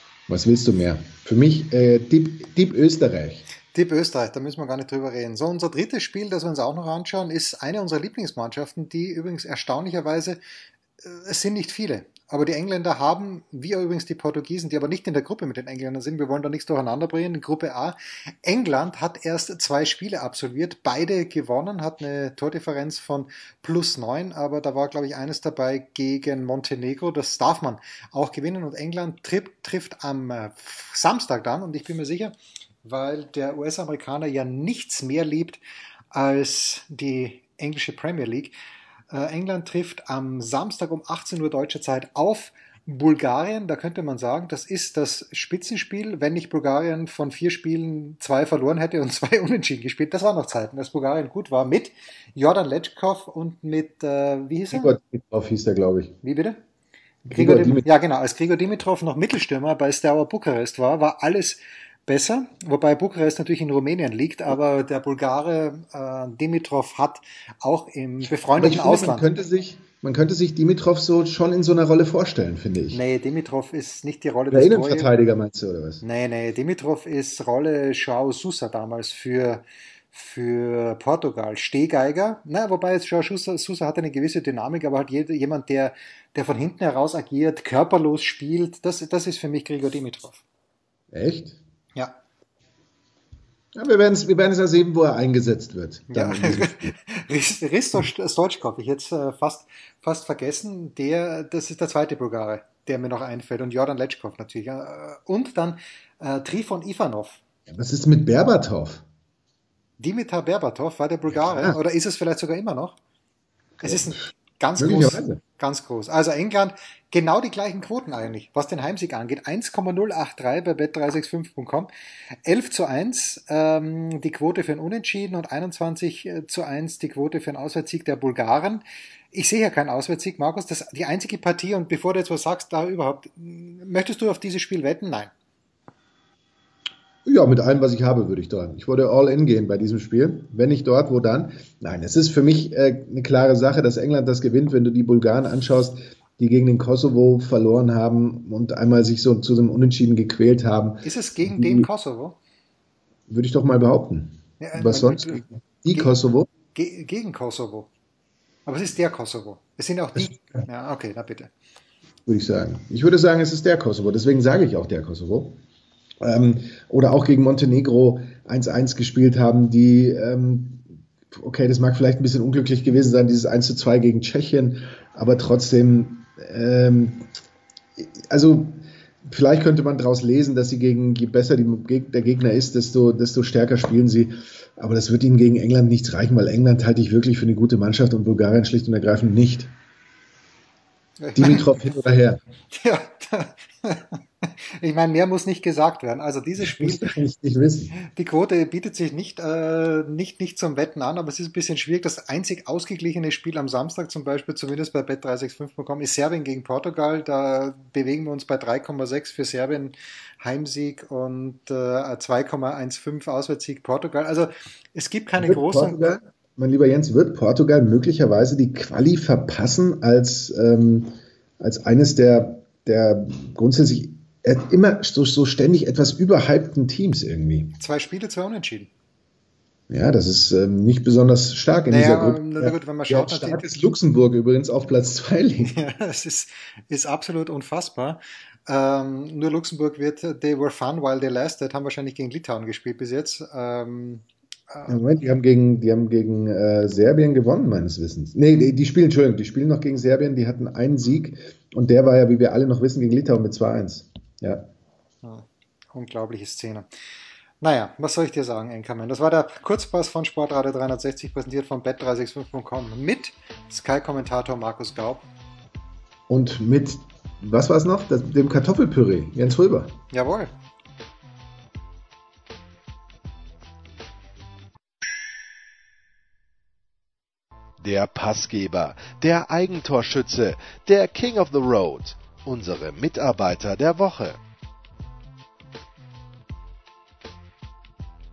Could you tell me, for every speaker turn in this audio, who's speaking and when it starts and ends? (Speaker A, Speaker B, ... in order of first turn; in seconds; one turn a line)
Speaker A: 0.3-3.4
Speaker B: 3.7-10.4
Speaker B: 11.0-35.6
Speaker B: 36.1-38.5
Speaker B: 39.1-54.9
Speaker A: 54.7-56.2
Speaker B: 56.2-56.6
Speaker A: 57.2-57.9
Speaker B: 57.3-69.3
Speaker A: 68.5-73.0
Speaker B: 72.9-75.1
Speaker A: 74.5-76.0
Speaker B: 76.0-90.4
Speaker A: 91.1-91.6
Speaker A: 93.7-96.9
Speaker B: 96.1-107.4
Speaker A: 107.7-109.0
Speaker B: 110.0-113.0
Speaker A: 111.3-111.8
Speaker A: 113.8-114.1
Speaker B: 113.8-121.9
Speaker A: 114.8-115.4
Speaker B: 122.4-135.3
Speaker A: 137.2-151.9
Speaker B: 151.0-152.4
Speaker A: 153.3-156.5
Speaker B: 154.6-156.1
Speaker B: 156.7-157.9
Speaker B: 158.7-161.5
Speaker A: 160.2-160.6
Speaker A: 162.2-165.6
Speaker A: 166.2-177.3
Speaker A: 178.0-189.7
Speaker B: 191.2-191.6
Speaker A: 191.3-192.4
Speaker B: 192.7-197.1
Speaker A: 196.6-197.9
Speaker B: 198.0-216.1
Speaker A: 215.4-227.7
Speaker B: 227.8-228.9
Speaker A: 229.9-235.8
Speaker B: 231.9-233.8
Speaker B: 235.7-245.0
Speaker A: 244.9-254.7
Speaker B: 255.2-256.9
Speaker B: 257.6-265.3
Speaker A: 266.3-270.0
Speaker B: 270.1-270.5
Speaker C: 277.8-284.4